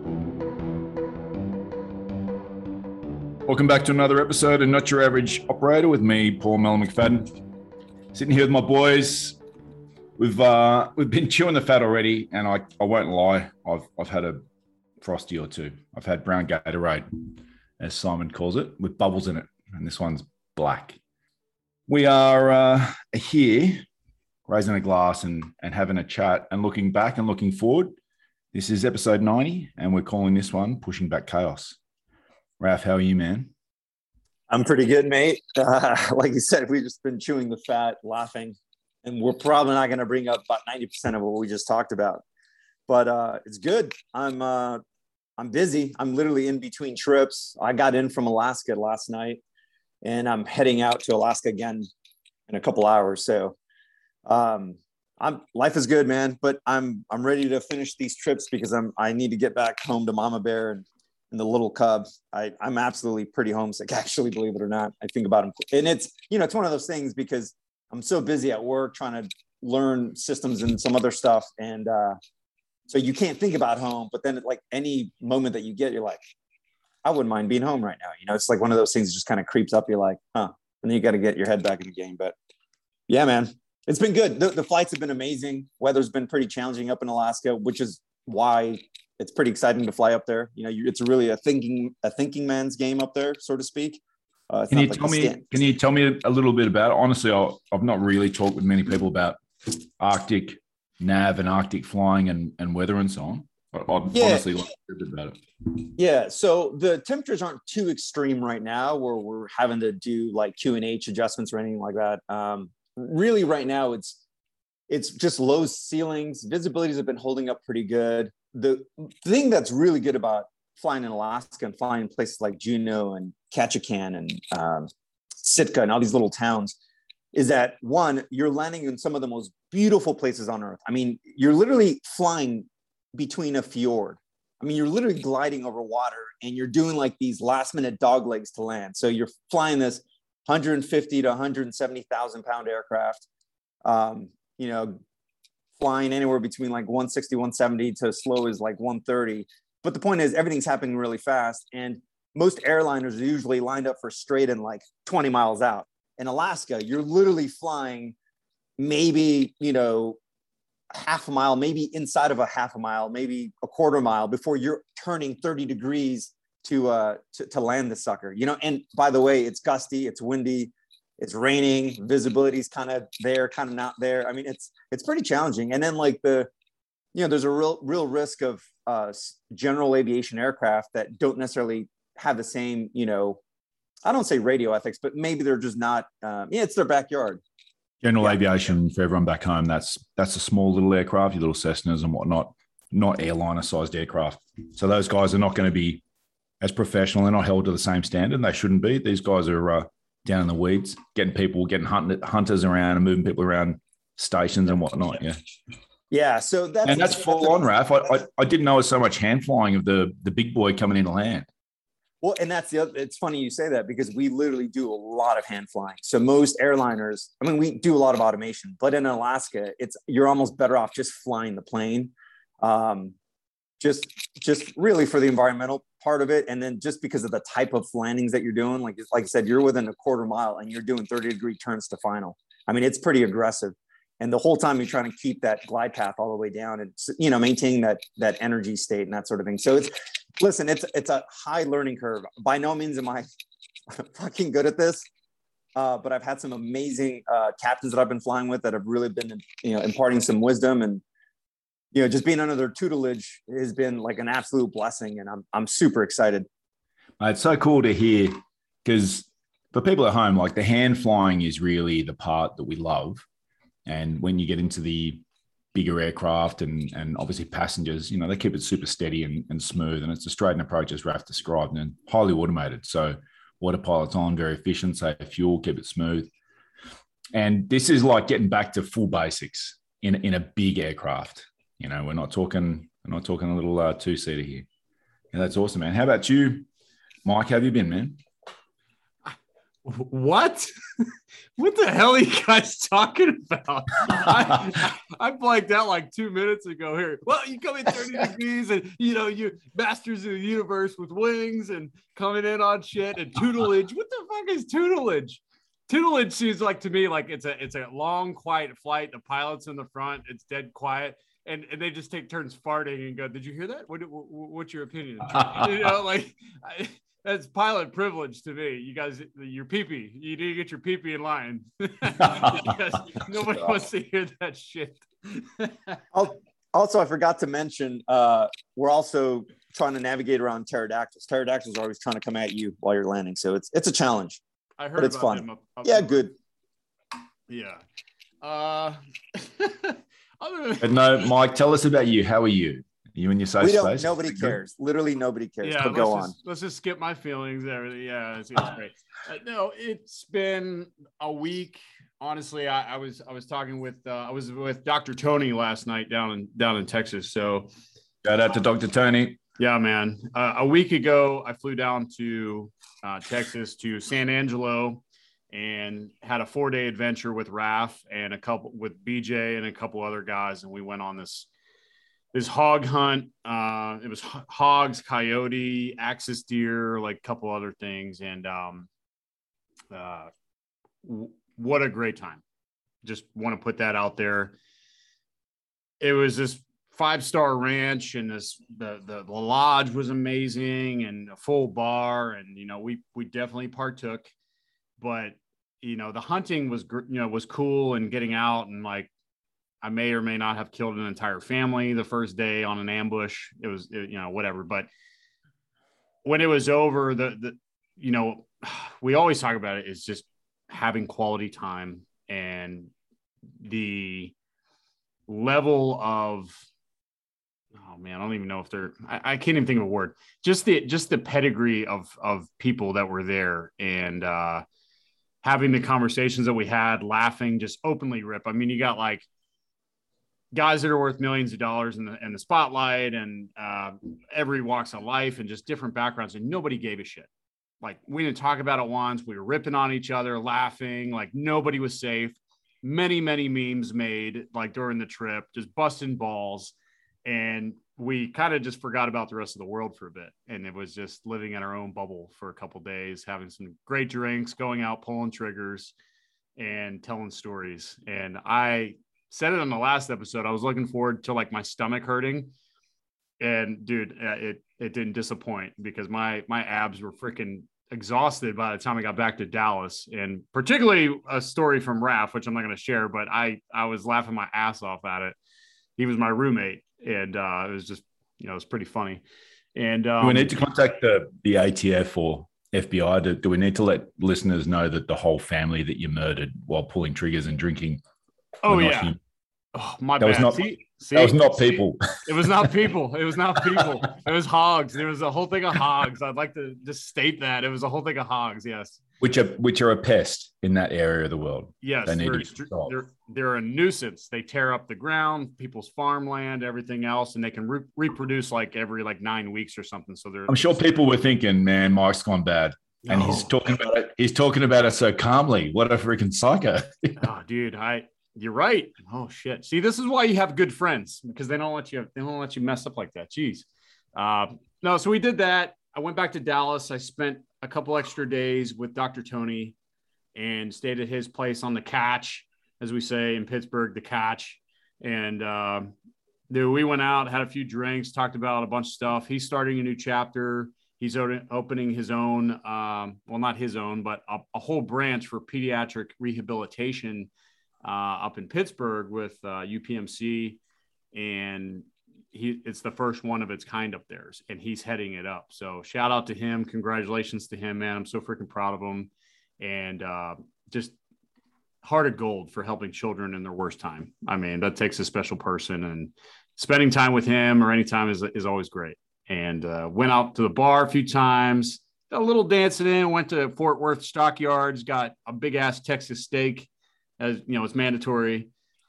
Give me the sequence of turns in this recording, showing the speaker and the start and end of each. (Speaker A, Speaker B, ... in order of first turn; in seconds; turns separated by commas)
Speaker A: 3.5-7.3, Speaker A: 8.1-9.4, Speaker A: 10.2-14.4, Speaker A: 15.0-21.0, Speaker A: 21.9-23.8, Speaker A: 24.5-27.9, Speaker A: 28.5-31.8, Speaker A: 32.6-33.5, Speaker B: 34.5-42.2, Speaker B: 42.9-44.8, Speaker B: 45.4-49.4, Speaker B: 50.0-51.9, Speaker B: 52.5-53.5, Speaker B: 54.2-72.2, Speaker B: 72.9-76.2, Speaker B: 77.0-82.3, Speaker B: 83.1-95.4, Speaker A: 94.7-105.4, Speaker B: 104.1-104.5, Speaker B: 106.0-114.2, Speaker B: 114.9-126.8, Speaker B: 127.3-143.2, Speaker B: 143.8-145.0, Speaker B: 145.8-158.1, Speaker B: 158.8-160.2, Speaker B: 160.9-176.5, Speaker B: 177.1-183.4, Speaker B: 184.0-187.4, Speaker A: 188.0-196.0, Speaker A: 196.6-205.4, Speaker B: 206.1-207.7, Speaker A: 206.8-211.5, Speaker B: 212.2-223.1, Speaker B: 223.8-243.2, Speaker B: 243.9-245.1, Speaker B: 245.8-251.0, Speaker B: 251.9-256.5, Speaker A: 257.2-263.2, Speaker A: 263.9-265.2, Speaker A: 265.7-276.3, Speaker A: 277.3-284.7, Speaker A: 285.3-286.7, Speaker A: 287.2-288.2, Speaker C: 289.8-291.0, Speaker C: 291.6-326.0, Speaker B: 326.1-334.4, Speaker C: 334.8-336.2, Speaker B: 335.0-336.3, Speaker C: 337.5-337.8, Speaker C: 338.4-340.9, Speaker A: 340.8-344.6, Speaker B: 343.6-346.3, Speaker C: 345.6-357.7, Speaker A: 358.2-359.4, Speaker C: 359.6-371.5, Speaker C: 372.3-378.9, Speaker C: 379.9-380.3, Speaker C: 381.0-382.4, Speaker C: 383.0-384.5, Speaker C: 386.0-394.3, Speaker C: 395.0-399.1, Speaker C: 399.8-404.9, Speaker C: 406.2-412.9, Speaker C: 413.6-414.3, Speaker C: 415.3-416.6, Speaker C: 417.7-424.6, Speaker C: 425.4-429.3, Speaker C: 430.5-437.3, Speaker C: 437.8-455.9, Speaker C: 456.6-462.5, Speaker C: 463.4-475.4, Speaker C: 476.0-479.2, Speaker C: 479.7-480.7, Speaker A: 480.2-488.0, Speaker C: 488.6-489.1, Speaker A: 488.7-489.2, Speaker C: 489.7-491.6, Speaker A: 490.2-492.7, Speaker C: 492.2-499.0, Speaker A: 499.2-502.9, Speaker C: 501.8-510.8, Speaker A: 510.5-517.2, Speaker C: 513.0-513.5, Speaker C: 517.2-529.8, Speaker C: 530.3-535.9, Speaker C: 536.5-547.3, Speaker C: 547.8-550.6, Speaker C: 551.1-561.0, Speaker C: 561.8-578.5